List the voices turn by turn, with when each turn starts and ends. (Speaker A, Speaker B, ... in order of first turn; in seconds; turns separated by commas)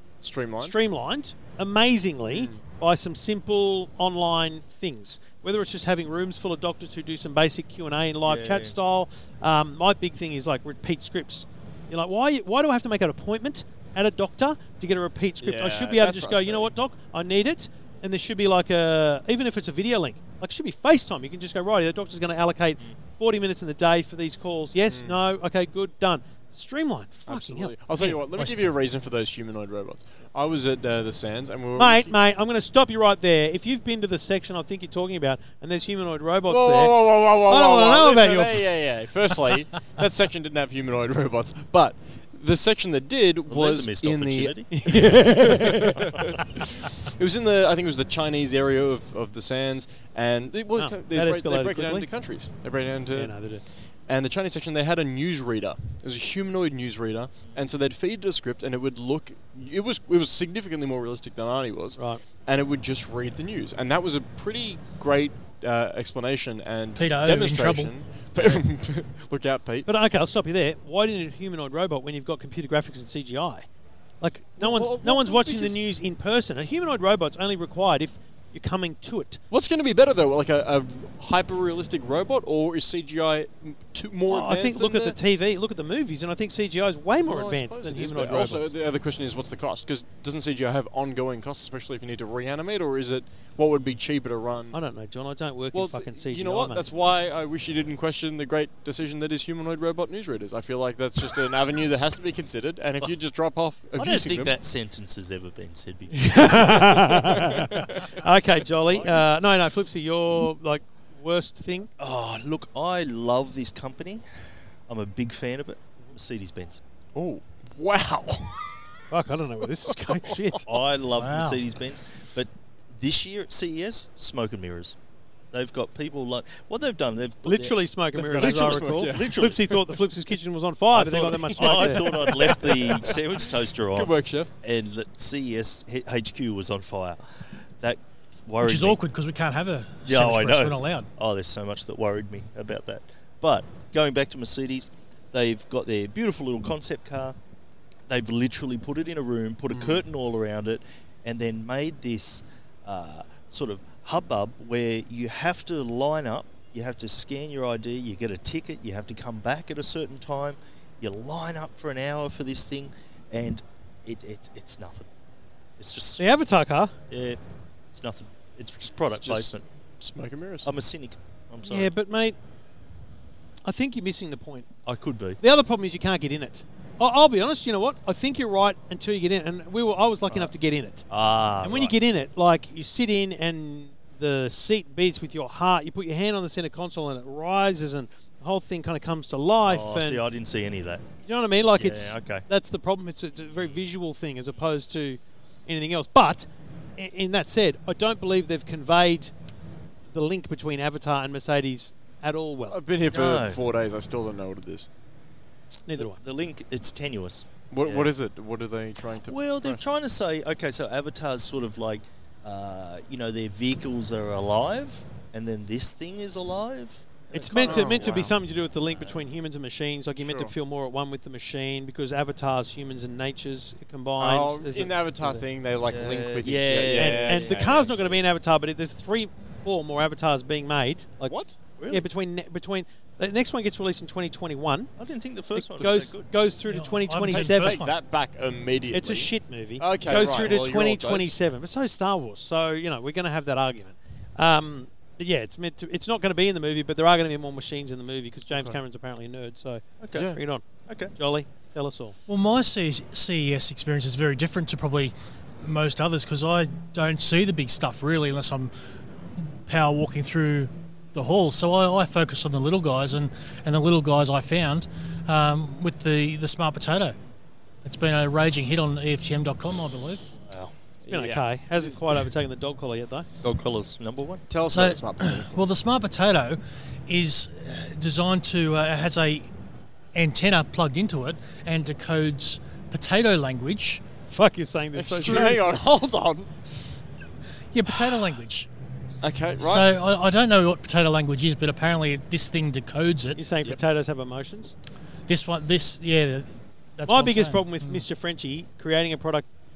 Speaker A: 0.2-0.8, Speaker B: 0.6-28.2, Speaker A: 2.3-2.6, Speaker C: 8.2-8.7, Speaker A: 15.4-16.5, Speaker A: 24.9-25.2, Speaker A: 27.3-32.1, Speaker D: 28.3-28.7, Speaker B: 31.8-38.6, Speaker A: 36.5-69.9, Speaker C: 43.5-44.7, Speaker B: 44.7-46.0, Speaker B: 50.8-52.1, Speaker B: 53.1-53.6, Speaker D: 67.0-67.9, Speaker B: 69.8-73.7, Speaker B: 74.2-79.4, Speaker A: 74.6-75.8, Speaker A: 79.5-85.2, Speaker B: 84.3-88.7, Speaker A: 87.2-94.8, Speaker B: 94.7-96.8, Speaker A: 95.7-104.5, Speaker C: 104.0-107.3, Speaker B: 106.1-111.9, Speaker A: 107.6-108.0, Speaker C: 108.9-109.2, Speaker C: 112.0-114.2, Speaker C: 114.9-116.8, Speaker A: 117.1-118.7, Speaker B: 119.1-120.7, Speaker A: 120.1-120.4, Speaker C: 120.7-125.0, Speaker D: 121.2-121.6, Speaker C: 125.5-129.6, Speaker B: 127.4-132.5, Speaker A: 128.2-129.8, Speaker C: 130.9-137.2, Speaker A: 131.4-134.5, Speaker C: 137.8-139.0, Speaker D: 138.6-141.1, Speaker C: 140.1-147.3, Speaker C: 148.1-165.1, Speaker A: 149.7-150.0, Speaker C: 165.8-166.2, Speaker B: 166.2-166.9, Speaker C: 167.1-167.4, Speaker C: 167.9-169.6, Speaker A: 169.1-170.7, Speaker C: 170.6-171.9, Speaker B: 171.6-172.3, Speaker B: 173.6-174.7, Speaker C: 174.8-175.4, Speaker B: 175.4-181.1, Speaker C: 181.1-181.9, Speaker B: 181.6-190.2, Speaker C: 189.6-191.1, Speaker B: 191.2-199.3, Speaker C: 191.7-192.4, Speaker B: 200.1-202.8, Speaker A: 202.7-204.9, Speaker C: 203.1-203.6, Speaker B: 205.9-206.2, Speaker C: 205.9-208.1, Speaker A: 207.7-209.8, Speaker C: 209.3-219.2, Speaker B: 217.3-225.4, Speaker A: 217.6-218.3, Speaker A: 220.2-220.5, Speaker A: 224.2-228.1, Speaker C: 225.8-228.0, Speaker B: 226.9-234.9, Speaker A: 231.3-231.6, Speaker C: 231.8-232.0, Speaker C: 235.0-236.3, Speaker B: 235.5-237.8, Speaker D: 236.7-237.9, Speaker A: 237.3-241.4, Speaker B: 238.9-249.8, Speaker C: 240.1-240.6, Speaker A: 248.5-248.8, Speaker C: 250.0-250.3, Speaker A: 250.1-250.4, Speaker B: 250.3-252.2, Speaker C: 250.9-251.1, Speaker D: 252.3-258.7, Speaker D: 259.3-267.1, Speaker D: 267.8-270.3, Speaker C: 270.4-270.7, Speaker A: 271.0-272.0, Speaker B: 271.1-273.3, Speaker C: 273.4-274.4, Speaker A: 274.5-275.5, Speaker D: 274.7-279.5, Speaker D: 280.1-284.0, Speaker B: 284.3-285.7, Speaker A: 284.9-286.5, Speaker D: 287.7-288.7, Speaker A: 289.2-289.9, Speaker D: 289.6-293.4, Speaker B: 293.4-294.7, Speaker D: 295.3-298.0, Speaker B: 297.1-299.5